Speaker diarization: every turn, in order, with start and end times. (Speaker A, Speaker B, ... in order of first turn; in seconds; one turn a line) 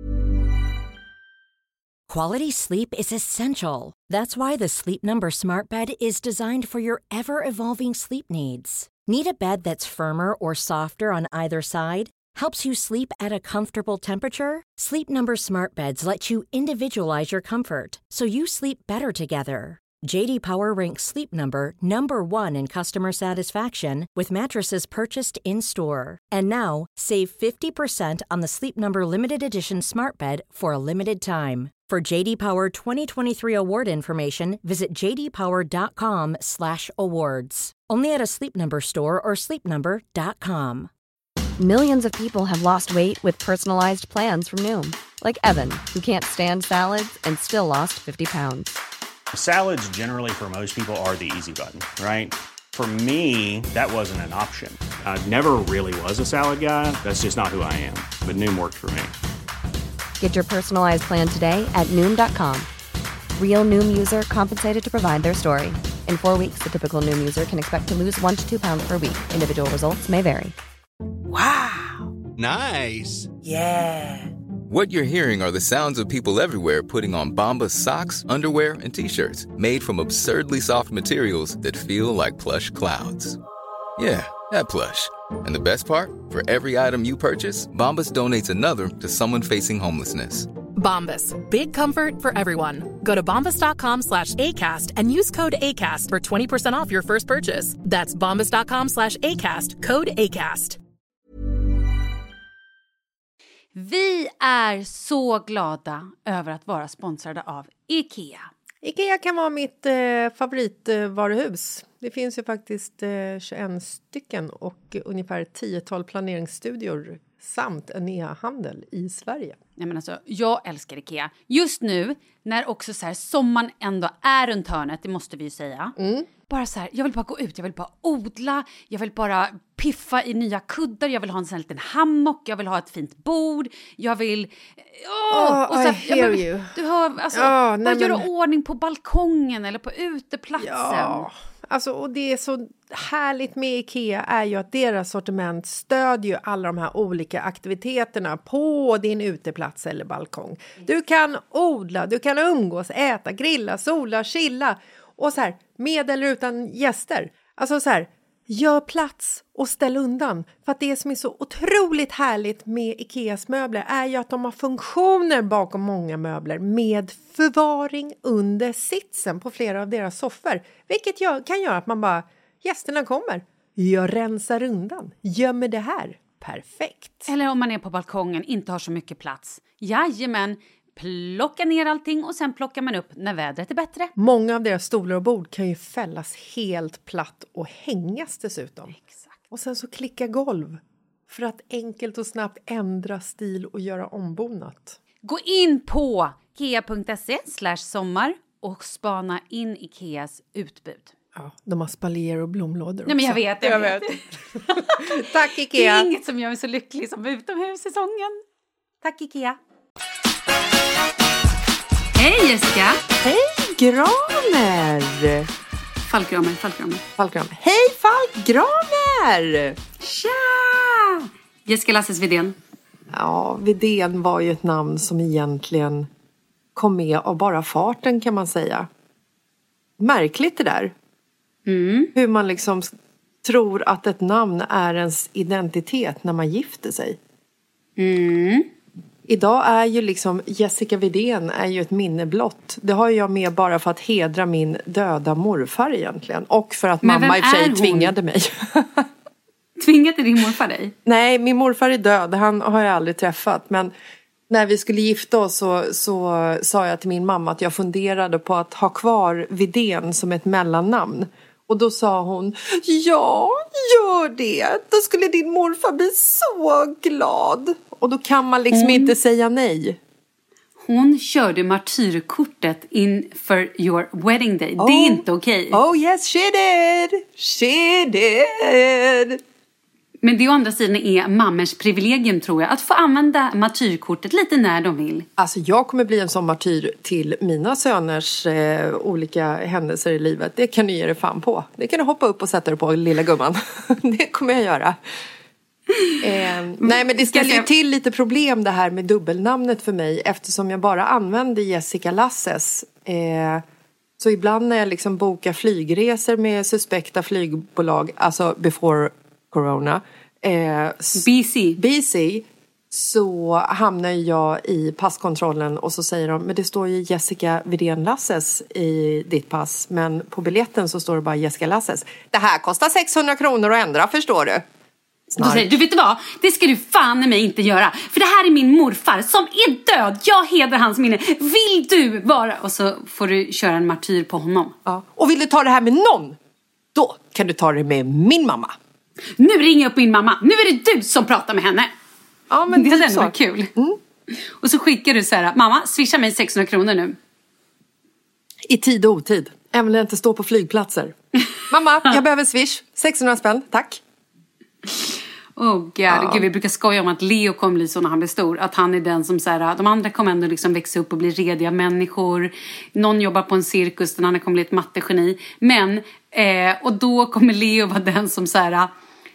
Speaker A: 2.1-40.9
Speaker B: 41.6-48.7
Speaker C: 49.3-59.1
Speaker B: 60.2-62.7
Speaker B: 63.4-70.5
Speaker D: 71.3-72.1
Speaker D: 73.5-74.2
Speaker E: 74.7-83.4
Speaker E: 84.0-90.5
Speaker D: 90.8-100.8
Speaker F: 103.8-108.5
Speaker G: 108.8-119.6
Speaker F: 119.8-125.9
Speaker G: 126.0-126.3
Speaker F: 126.5-141.3
Speaker G: 135.3-136.7
Speaker G: 137.3-138.2
Speaker G: 140.6-177.3
Speaker F: 177.3-184.1
Speaker G: 184.2-188.9
Speaker G: 189.5-195.0
Speaker F: 195.2-201.1
Speaker G: 201.4-204.1
Speaker F: 203.1-205.1
Speaker G: 204.7-206.1
Speaker F: 205.8-208.4
Speaker G: 209.0-209.6
Speaker F: 212.2-213.0
Speaker G: 213.2-215.5
Speaker F: 216.1-217.0
Speaker G: 217.2-219.8
Speaker F: 220.0-222.6
Speaker G: 223.1-226.1
Speaker G: 226.8-228.9
Speaker G: 230.0-230.9
Speaker F: 231.7-232.1
Speaker G: 232.2-232.9
Speaker G: 233.4-237.2
Speaker F: 238.0-238.7
Speaker G: 239.3-249.1
Speaker F: 247.0-248.1
Speaker F: 249.8-250.9
Speaker G: 251.1-253.9
Speaker G: 254.5-270.0
Speaker F: 268.7-269.1
Speaker F: 270.8-275.8
Speaker G: 274.8-279.4
Speaker F: 280.2-285.3
Speaker G: 285.4-295.0
Speaker G: 296.2-303.6
Speaker F: 296.8-297.7
Speaker G: 304.2-311.3
Speaker F: 311.2-311.8
Speaker G: 311.8-324.6
Speaker G: 325.3-325.7
Speaker F: 325.4-334.8
Speaker G: 334.9-336.4
Speaker G: 336.9-338.8
Speaker F: 339.4-341.9
Speaker G: 342.5-344.0
Speaker F: 342.7-343.7
Speaker F: 344.3-347.2
Speaker G: 348.7-351.2
Speaker G: 351.7-354.0
Speaker F: 355.6-368.9
Speaker G: 356.1-356.5